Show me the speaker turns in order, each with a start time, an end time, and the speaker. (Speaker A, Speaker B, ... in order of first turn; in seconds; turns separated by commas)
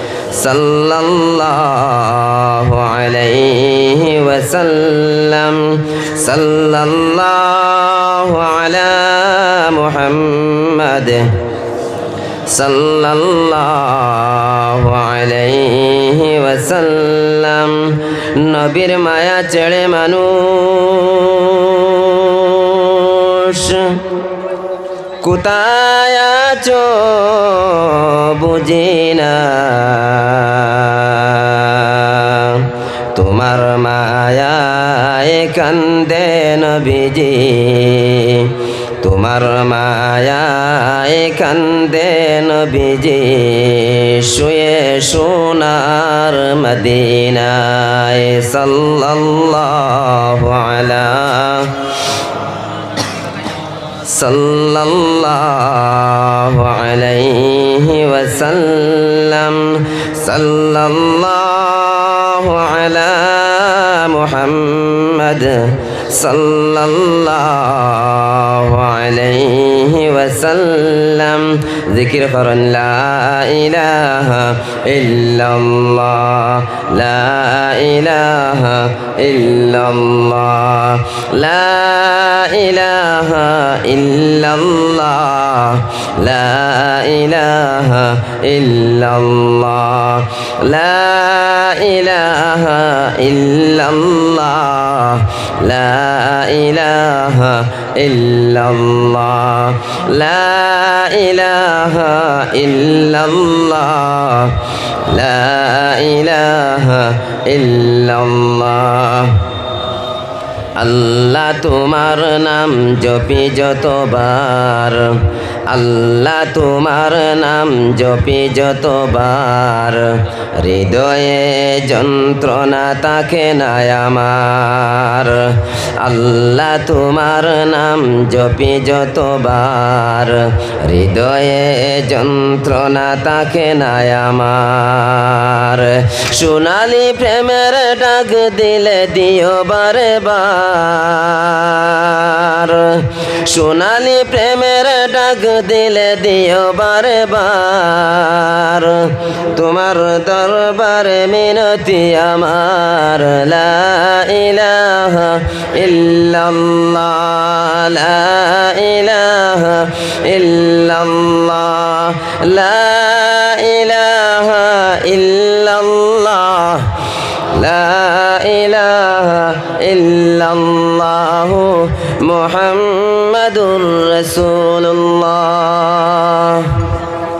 Speaker A: 0.3-11.4, Speaker A: 12.5-24.0, Speaker A: 25.2-51.8, Speaker A: 54.1-109.4, Speaker A: 110.8-176.9